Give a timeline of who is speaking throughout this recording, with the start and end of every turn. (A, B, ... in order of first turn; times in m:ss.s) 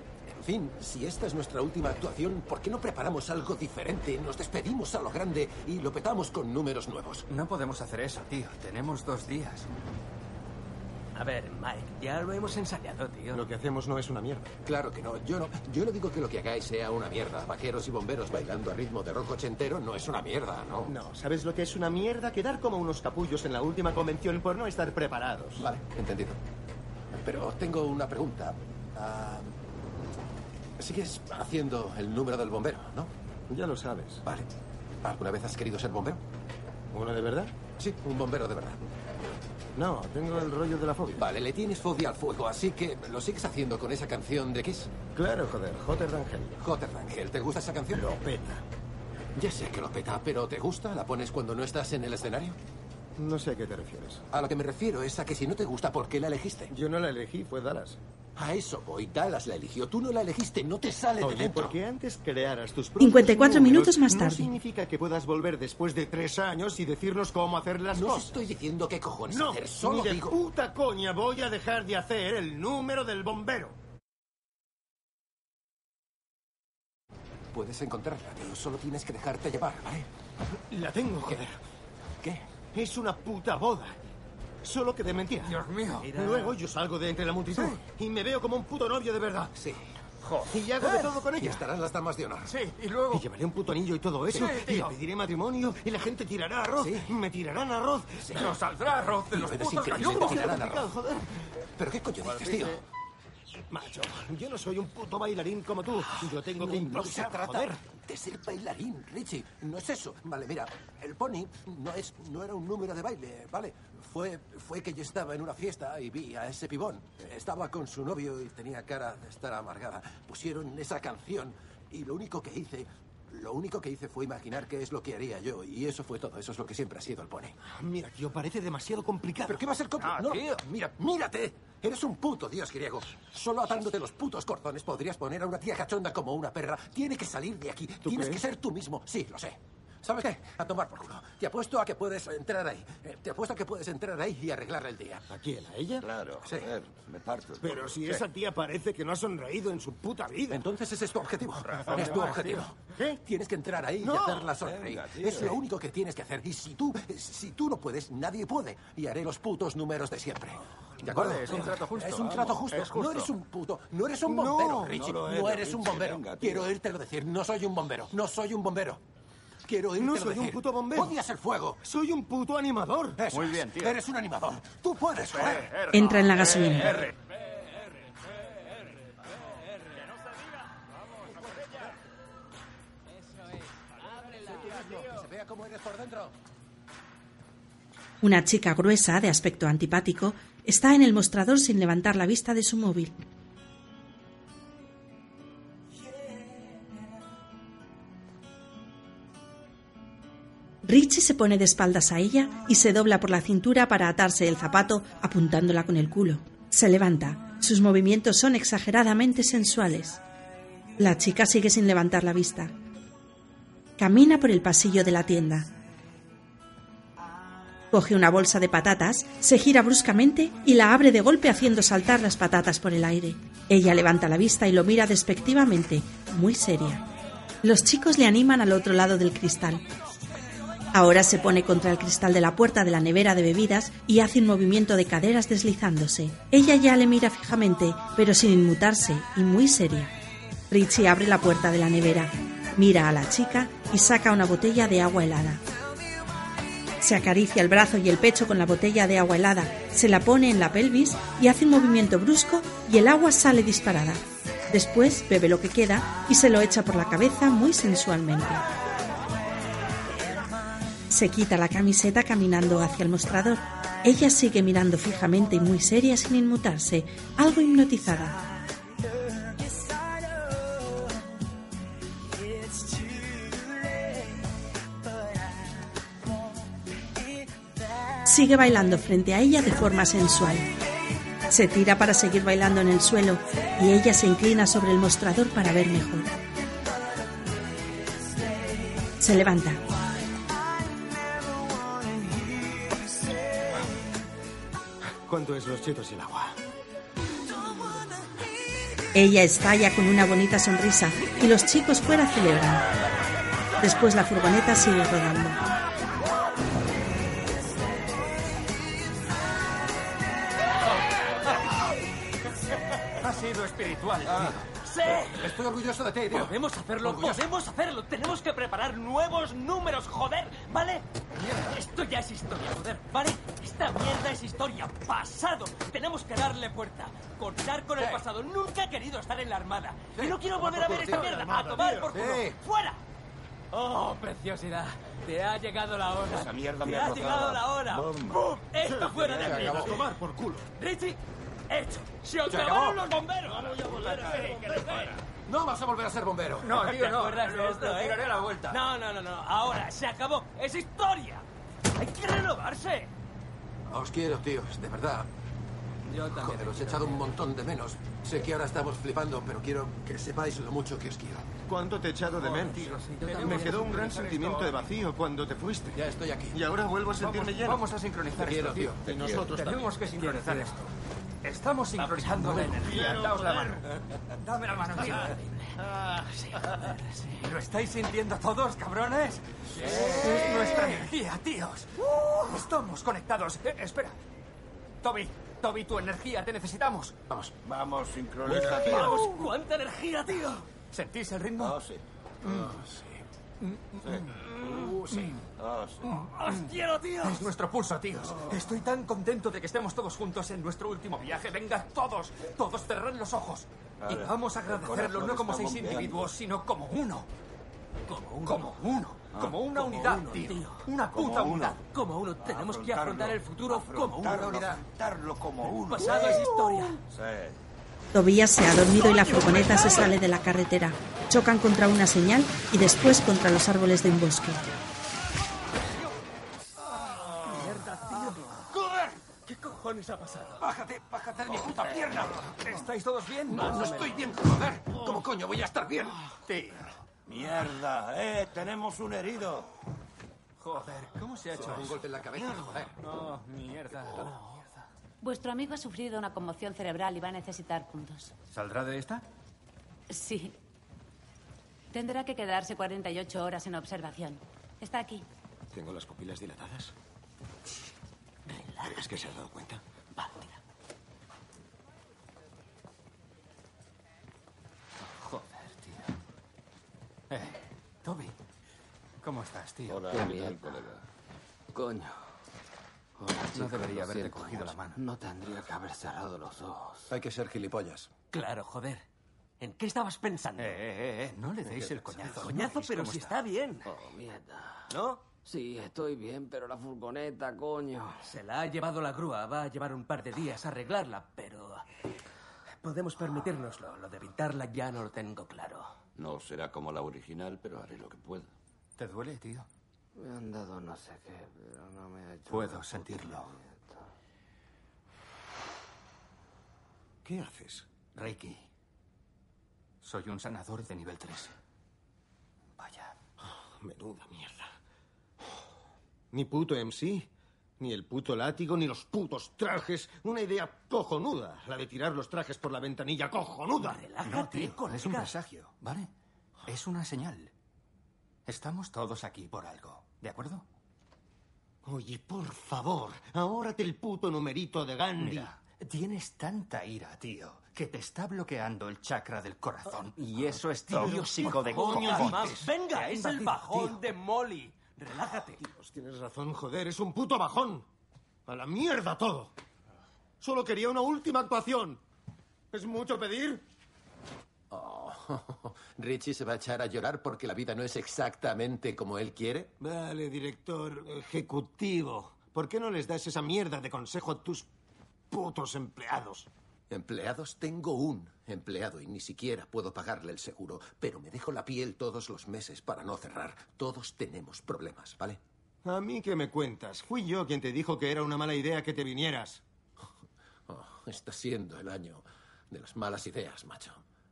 0:00.3-0:07.3 A
0:07.3-0:09.7 B
0:11.2-0:13.4 C
0:13.3-0:14.6 D
0:14.6-0:20.9 A
0:20.9-0:25.7 D
0:25.6-0:26.4 A
0:27.1-0:29.6 A
0:30.8-0:33.1 A
0:33.5-0:34.2 D
0:34.2-0:34.5 A
0:35.0-0:36.2 A
0:36.9-0:37.5 D
0:37.8-0:38.8 A
0:39.8-0:41.2 D
0:41.2-0:44.9 A
0:45.1-0:46.6 D
0:46.6-0:48.1 A
0:47.9-0:48.6 D
0:49.4-0:52.6 A
0:53.2-0:54.2 D
0:54.3-0:56.7 A
0:56.7-0:58.0 D
0:58.4-1:01.8 A
1:01.2-1:08.4 D
1:03.0-1:04.5 E
1:07.9-1:10.4 A
1:09.3-1:13.8 D
1:17.5-1:20.1 A
1:20.7-1:21.6 D
1:22.2-1:22.4 A
1:22.7-1:23.9 D
1:24.6-1:29.5 D
1:25.4-1:26.1 B
1:26.0-1:26.6 C
1:29.5-1:29.8 A
1:30.5-1:31.6 D
1:30.8-1:32.5 A
1:32.5-1:33.2 B
1:33.1-1:38.5 D
1:34.3-1:35.0 B
1:36.8-1:37.1 A
1:38.3-1:40.6 B
1:39.3-1:40.9 A
1:39.8-1:41.4 D
1:41.8-1:42.8 A
1:42.2-1:42.8 B
1:43.7-1:47.8 D
1:46.5-2:07.6 A
2:07.7-2:09.6 D
2:09.5-2:25.3 A
2:10.0-2:10.6 B
2:18.0-2:18.4 D
2:25.3-2:26.0 D
2:26.0-2:28.2 F
2:26.4-2:26.7 A
2:27.6-2:30.6 D
2:30.5-2:49.0 A
2:31.6-2:32.7 B
2:34.0-2:34.5 D
2:34.7-2:35.5 F
2:41.0-2:43.3 B
2:44.3-2:45.0 D
2:44.9-2:46.7 F
2:49.6-2:51.8 A
2:50.0-2:51.1 D
2:51.8-2:53.2 D
2:53.2-2:55.7 A
2:53.3-2:54.0 B
2:55.3-2:57.1 B
2:55.9-2:57.0 E
3:04.5-3:06.4 A
3:08.2-3:13.2 E
3:20.8-3:30.2 E
3:31.0-3:32.7 E
3:34.0-3:35.7 E
3:37.9-3:47.0 E
3:47.6-3:49.8 E
3:50.9-4:00.1 E
4:00.7-4:05.6 E
4:07.0-4:18.6 E
4:21.1-4:28.4 E
4:38.2-4:40.7 E
4:41.5-4:46.3 E
4:49.2-4:49.8 E
4:55.2-4:56.6 D
4:59.1-5:02.8 E
5:03.8-5:05.6 E
5:13.2-5:14.7 B
5:14.8-5:15.5 C
5:15.1-5:17.4 A
5:16.3-5:21.0 C
5:21.6-5:33.0 C
5:30.6-5:32.2 D
5:33.7-5:40.1 C
5:36.3-5:38.4 F
5:38.8-5:40.7 D
5:39.3-5:40.0 A
5:40.8-5:41.2 C
5:41.7-5:45.2 C
5:42.5-5:43.1 A
5:45.4-5:46.8 A
5:46.6-5:48.8 B
5:46.8-5:53.1 C
5:53.9-5:55.3 A
5:56.1-5:57.2 C
5:56.4-6:01.5 A
6:01.7-6:06.0 D
6:02.5-6:04.9 B
6:02.6-6:03.7 C
6:05.9-6:06.6 A
6:06.5-6:07.8 D
6:07.2-6:09.0 B
6:08.4-6:09.1 A
6:09.0-6:09.5 F
6:09.4-6:09.7 D
6:09.5-6:10.7 B
6:11.4-6:13.8 B
6:12.2-6:13.8 D
6:14.5-6:15.4 B
6:15.0-6:15.4 C
6:16.2-6:17.3 C
6:17.4-6:24.2 B
6:19.8-6:20.8 F
6:25.0-6:27.2 B
6:27.6-6:29.4 F
6:28.4-6:30.7 C
6:30.9-6:31.8 B
6:31.6-6:32.0 F
6:32.5-6:33.2 A
6:33.6-6:35.4 B
6:34.0-6:36.6 F
6:34.7-6:35.3 A
6:36.0-6:47.3 B
6:44.0-6:46.3 F
6:48.1-6:48.7 C
6:48.4-6:50.6 B
6:49.3-6:50.4 F
6:49.4-6:54.5 C
6:51.1-6:51.8 F
6:52.4-6:57.6 F
6:54.2-6:54.8 A
6:55.8-6:57.0 C
6:58.1-7:04.6 E
7:07.6-7:08.6 C
7:09.4-7:10.6 C
7:10.6-7:12.4 A
7:11.5-7:14.2 B
7:13.5-7:16.2 A
7:16.4-7:16.8 B
7:17.2-7:19.7 F
7:20.6-7:22.0 B
7:21.6-7:22.9 A
7:23.0-7:24.8 B
7:25.2-7:28.3 G
7:28.5-7:29.2 B
7:30.1-7:30.5 G
7:31.9-7:35.2 G
7:35.7-7:36.9 D
7:38.8-7:39.8 D
7:45.2-7:46.1 B
7:47.3-7:48.3 B
7:49.2-7:50.2 B
7:49.9-7:51.0 F
7:50.2-7:50.5 H
7:51.7-7:52.2 H
7:53.2-7:57.0 H
7:53.5-7:55.0 B
7:57.1-7:58.1 A
7:58.3-7:59.0 C
7:59.6-8:00.8 C
8:00.6-8:03.4 B
8:01.6-8:02.4 A
8:02.2-8:03.9 C
8:03.8-8:04.9 H
8:04.9-8:05.2 C
8:05.4-8:08.3 H
8:08.2-8:11.8 C
8:12.8-8:15.9 C
8:16.2-8:18.5 F
8:19.0-8:19.7 B
8:20.2-8:24.0 H
8:22.5-8:23.5 B
8:27.2-8:27.8 D
8:28.2-8:28.6 B
8:30.0-8:31.5 B
8:32.8-8:33.1 B
8:33.4-8:34.7 D
8:36.3-8:37.3 D
8:37.8-8:44.0 D
8:43.8-8:45.3 C
8:44.3-8:46.1 B
8:46.6-8:47.5 B
8:48.4-8:50.6 B
8:51.8-8:55.5 D
8:55.2-9:04.0 B
9:00.9-9:05.7 C
9:00.9-9:02.6 D
9:05.6-9:07.8 D
9:08.4-9:09.5 D
9:10.4-9:12.0 D
9:12.7-9:13.6 D
9:14.7-9:19.7 A
9:19.8-9:24.7 D
9:25.3-9:26.5 D
9:26.9-9:35.4 A
9:35.8-9:39.6 D
9:40.7-9:44.0 A